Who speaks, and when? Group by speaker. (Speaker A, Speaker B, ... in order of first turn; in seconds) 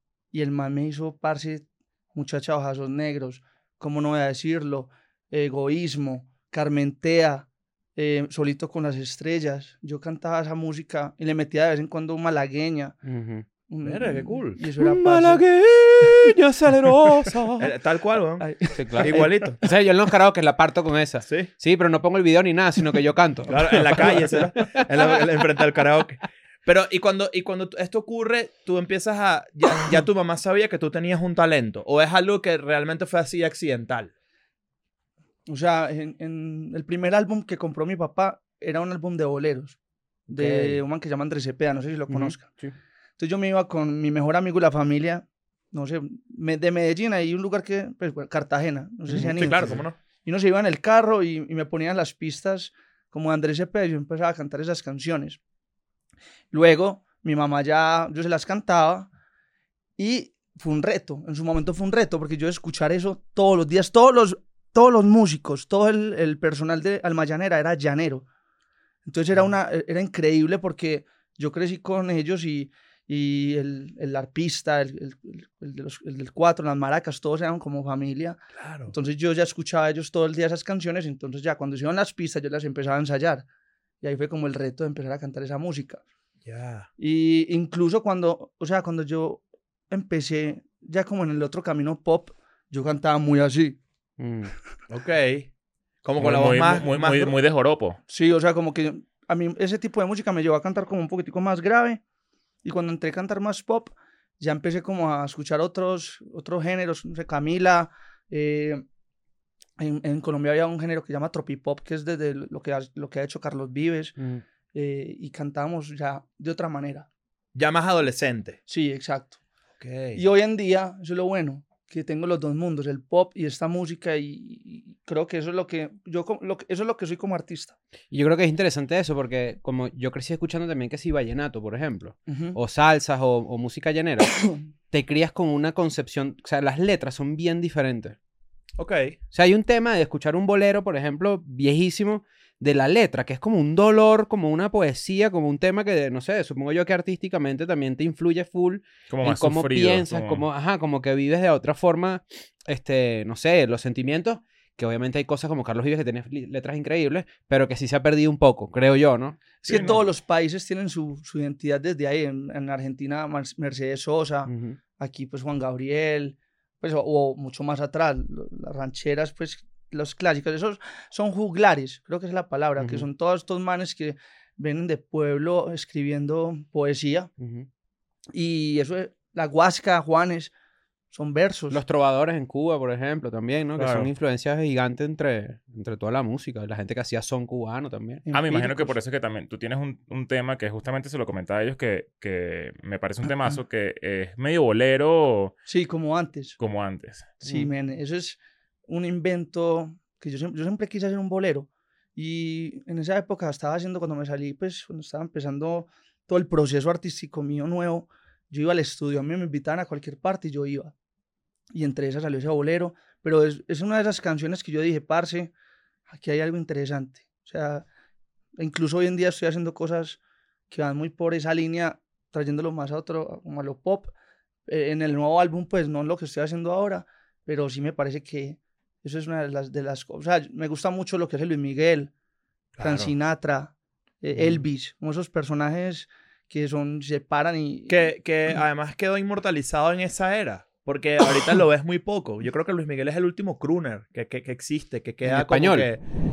Speaker A: 0.3-12.9, 13.7-15.4, 18.4-19.3, 35.5-39.8, 40.3-42.5, 43.2-55.4, 56.5-59.1, 60.0-68.3, 69.1-83.5, 84.0-86.0, 87.0-93.8, 98.1-102.0, 102.6-108.8, 109.8-114.2, 114.7-117.1, 118.7-119.4, 120.2-127.8, 132.3-132.6, 159.6-177.3, 178.3-180.5, 181.1-181.8, 188.3-189.0, 195.7-196.6, 197.4-210.9, 211.7-215.5, 216.1-217.9, 218.6-220.2, 220.7-224.1, 224.7-232.1, 232.8-238.1
Speaker B: 13.1-13.5, 14.8-17.7, 18.7-25.2, 40.3-40.8, 42.1-42.7, 49.1-49.8, 94.2-94.5, 114.2-114.4, 128.1-138.2, 139.3-159.4, 164.5-164.8, 172.8-173.1, 177.4-177.7, 181.7-188.2, 245.2-245.9
Speaker C: 13.8-14.6, 17.6-18.5, 19.0-19.6, 23.5-34.1, 49.1-50.0, 78.6-78.9, 86.5-86.9, 94.9-95.5, 96.0-97.3, 117.5-118.6, 119.8-120.2, 138.8-139.2, 183.8-184.1, 232.8-233.1, 237.9-246.0
Speaker D: 96.2-98.0, 149.1-150.5, 159.7-160.0, 188.3-195.6, 196.6-197.4